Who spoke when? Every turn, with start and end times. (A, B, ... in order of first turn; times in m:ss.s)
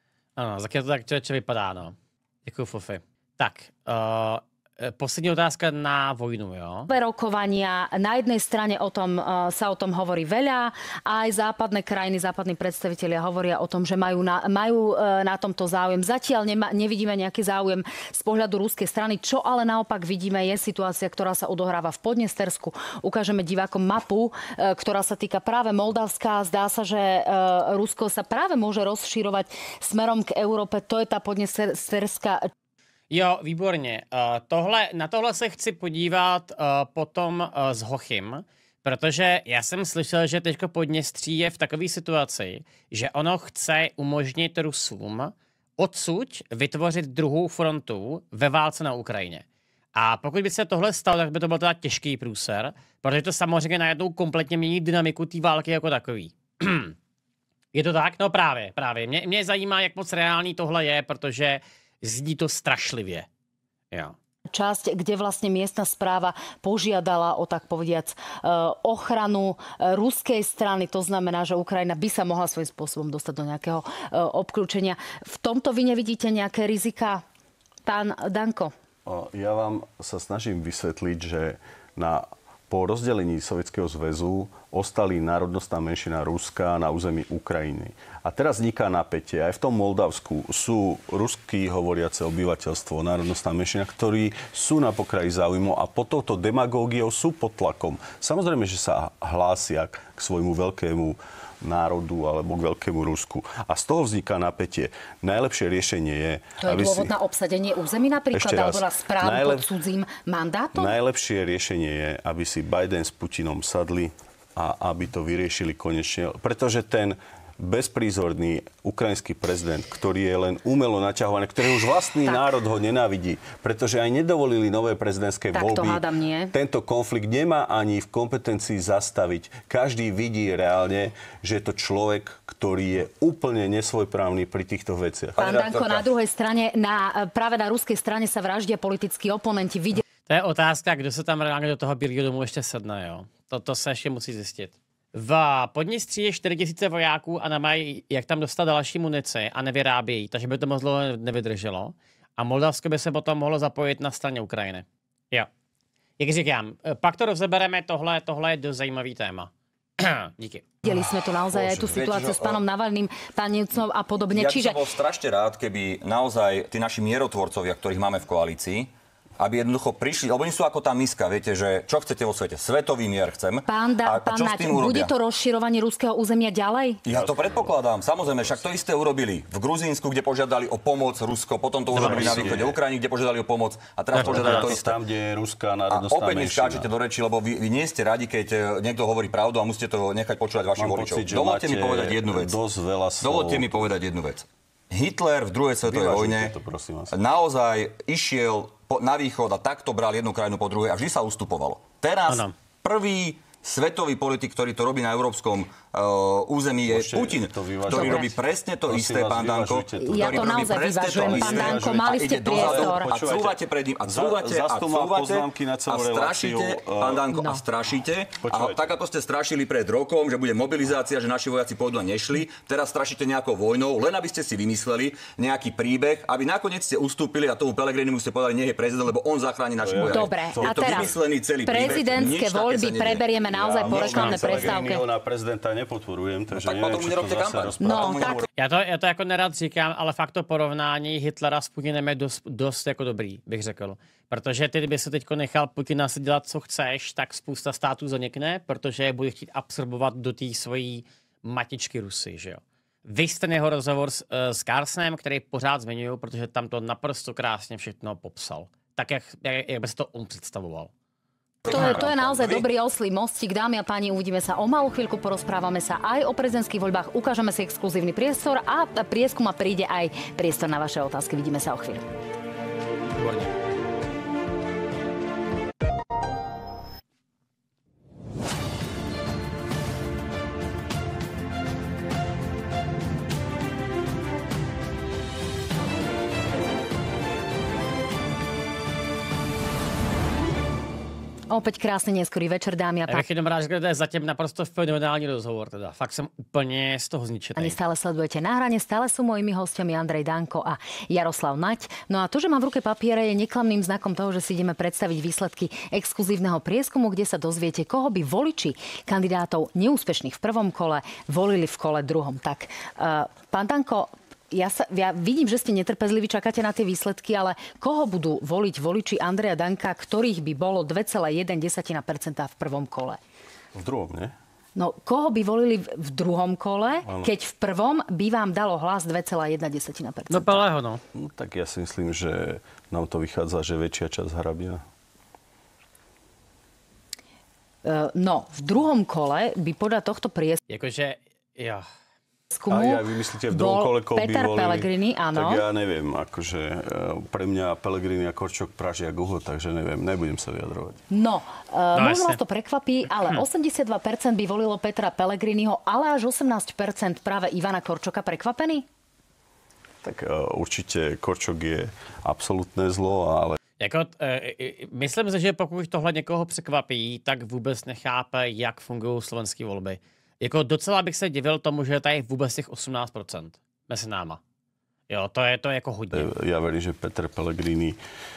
0:00.4-0:06.9 A
0:06.9-0:32.5 B
0:33.1-0:57.0 A
0:57.7-1:03.3 A
1:04.5-1:17.2 B
1:17.8-1:18.7 B
1:19.0-1:47.1 C
1:46.6-1:50.9 B
1:48.3-1:49.6 C
1:50.7-2:15.4 C
2:05.5-2:06.5 B
2:15.4-2:16.1 D
2:15.4-2:20.0 B
2:20.3-2:35.5 A
2:36.2-2:40.6 A
2:40.8-2:44.8 B
2:41.6-2:42.6 D
2:44.3-2:55.1 D
2:53.7-2:57.0 B
2:57.1-3:05.0 D
2:57.1-2:57.7 C
3:01.9-3:02.6 A
3:01.9-3:02.8 C
3:04.1-3:04.7 A
3:04.2-3:06.9 C
3:05.9-3:12.6 D
3:10.8-3:13.9 C
3:13.2-3:16.5 D
3:15.8-3:17.1 C
3:17.1-3:53.3 D
3:22.3-3:22.5 A
3:26.9-3:28.3 C
3:27.9-3:28.3 B
3:28.8-3:37.2 C
3:30.1-3:33.1 B
3:37.3-3:37.6 B
3:38.4-3:38.8 C
3:49.8-3:51.2 C
3:50.0-3:51.1 B
3:51.6-3:55.1 B
3:51.8-3:52.4 C
3:53.4-3:58.4 C
3:53.8-3:54.8 D
3:56.6-3:58.5 D
3:57.8-3:58.4 B
3:58.6-4:20.9 A
4:21.6-4:22.7 D
4:21.7-4:32.0 B
4:21.7-4:22.0 C
4:51.5-4:53.3 B
4:53.1-4:57.8 A
4:57.6-5:23.2 B
5:23.7-5:24.4 C
5:24.8-5:30.6 B
5:27.0-5:27.3 C
5:30.3-5:31.0 A
5:31.1-5:34.8 C
5:37.8-5:40.6 B
5:40.7-5:41.8 A
5:42.5-5:45.6 B
5:42.7-5:51.0 C
5:51.1-5:58.8 B
5:51.9-5:52.4 A
6:00.0-6:03.6 C
6:03.8-6:14.4 A
6:15.1-6:16.3 A
6:16.1-6:18.0 C